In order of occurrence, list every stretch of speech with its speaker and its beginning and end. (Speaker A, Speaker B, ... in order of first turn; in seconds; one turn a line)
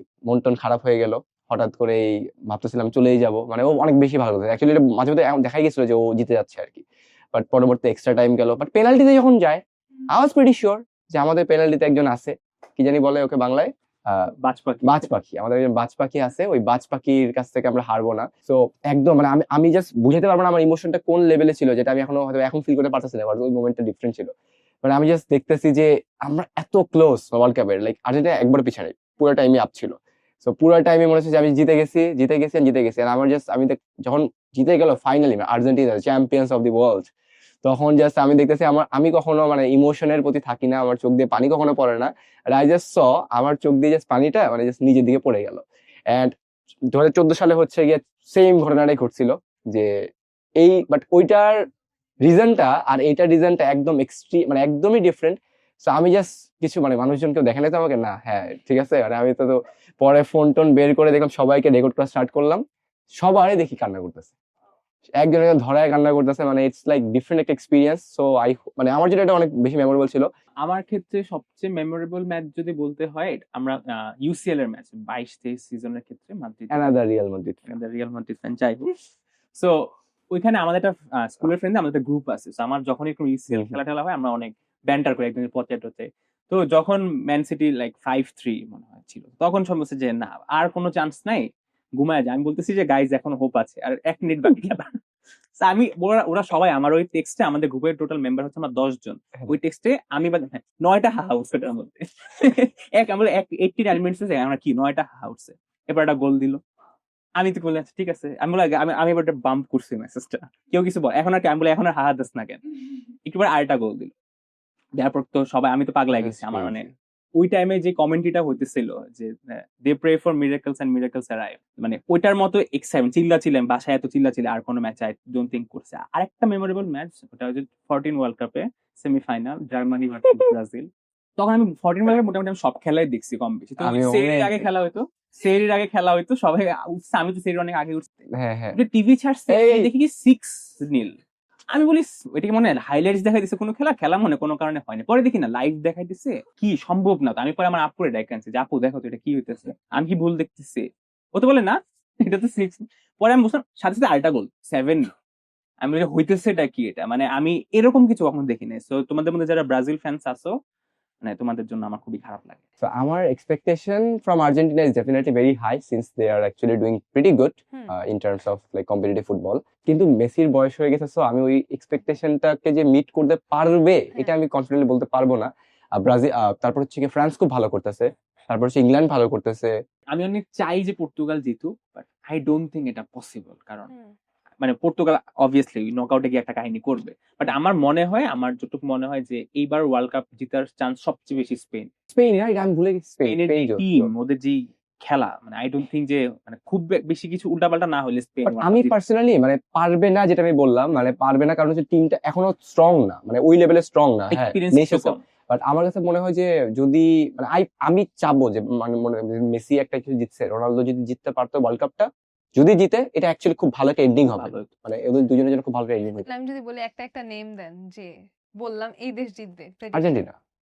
Speaker A: 0.2-14.3
Speaker B: 14.4-15.1
Speaker A: 14.9-24.3
Speaker A: 24.8-37.1
Speaker A: 37.6-46.3
Speaker A: 46.9-49.9
Speaker A: 50.6-51.5
Speaker A: 52.2-62.6
Speaker A: 63.2-64.3
Speaker A: 65.2-70.3
Speaker B: 70.6-76.9
Speaker A: 76.7-77.7
Speaker B: 77.7-79.0
Speaker B: 79.5-91.5
Speaker A: 83.5-83.8
Speaker B: 92.0-95.0
Speaker B: 95.6-106.6
Speaker B: 107.4-112.6
Speaker B: 113.2-114.1
Speaker B: 115.0-138.1
Speaker A: 116.2-116.9
Speaker A: 133.8-134.7
Speaker A: 138.3-138.8
Speaker B: 138.7-141.1
Speaker A: 139.5-139.9
Speaker B: 141.7-155.1
Speaker B: 155.8-160.6
Speaker B: 161.2-162.6
Speaker A: 162.8-179.7
Speaker B: 180.1-183.9
Speaker B: 184.6-191.9
Speaker A: 192.1-194.1
Speaker B: 193.2-198.9
Speaker A: 198.5-216.3
Speaker B: 204.3-205.2
Speaker B: 214.2-214.7
Speaker C: 216.1-220.2
Speaker A: 219.9-220.3